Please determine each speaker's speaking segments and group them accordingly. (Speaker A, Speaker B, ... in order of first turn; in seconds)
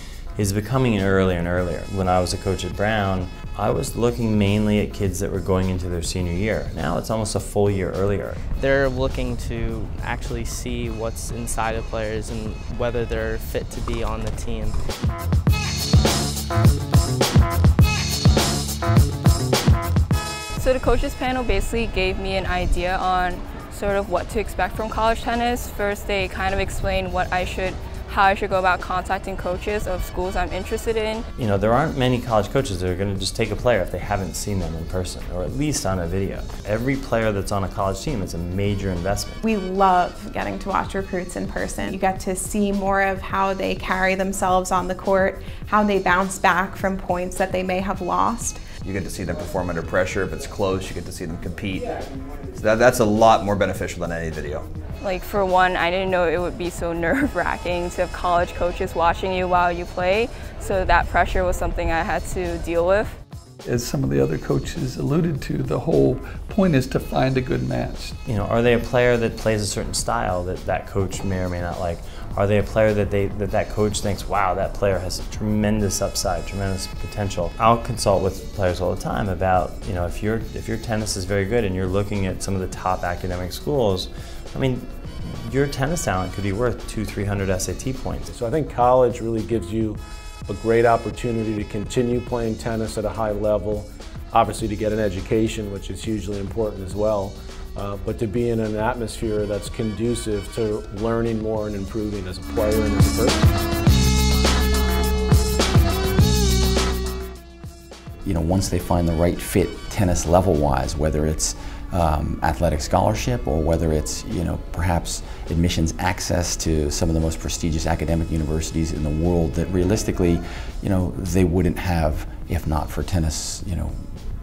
Speaker A: 0.3-8.4, 31.3-39.4, 68.2-88.3
Speaker B: 8.6-14.8
Speaker C: 20.6-31.2, 55.0-63.1
Speaker D: 39.4-48.6
Speaker E: 48.8-54.7
Speaker F: 63.6-68.1
Speaker G: 88.3-103.5
Speaker H: 108.2-124.1